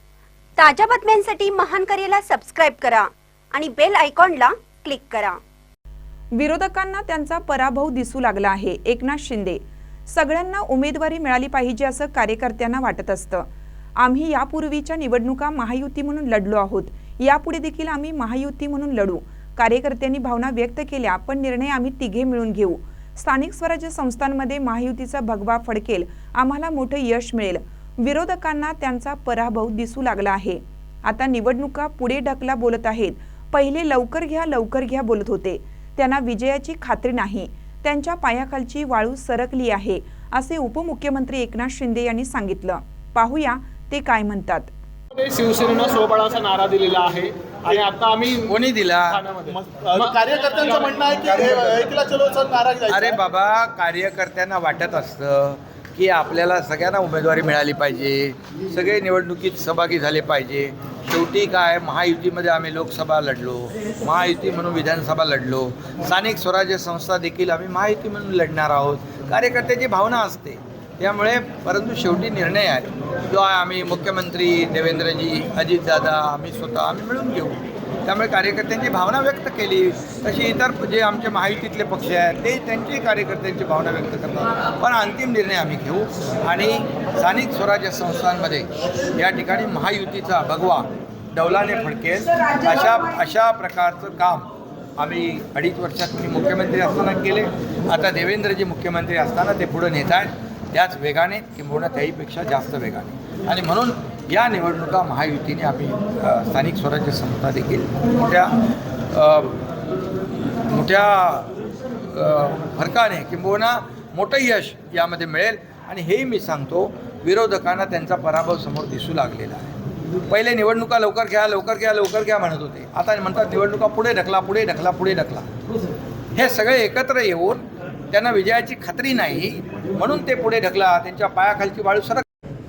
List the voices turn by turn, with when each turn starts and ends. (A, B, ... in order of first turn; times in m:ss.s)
0:00.6-0:05.4 A
0:06.3-0:13.4 B
0:14.0-0:44.7 B
0:45.1-0:51.5 C
0:48.4-0:49.2 D
0:49.5-0:53.2 E
0:52.9-1:48.6 D
1:49.1-1:49.6 D
1:50.6-1:51.5 D
1:52.1-1:59.8 D
2:00.3-2:05.5 D
2:06.3-2:12.2 D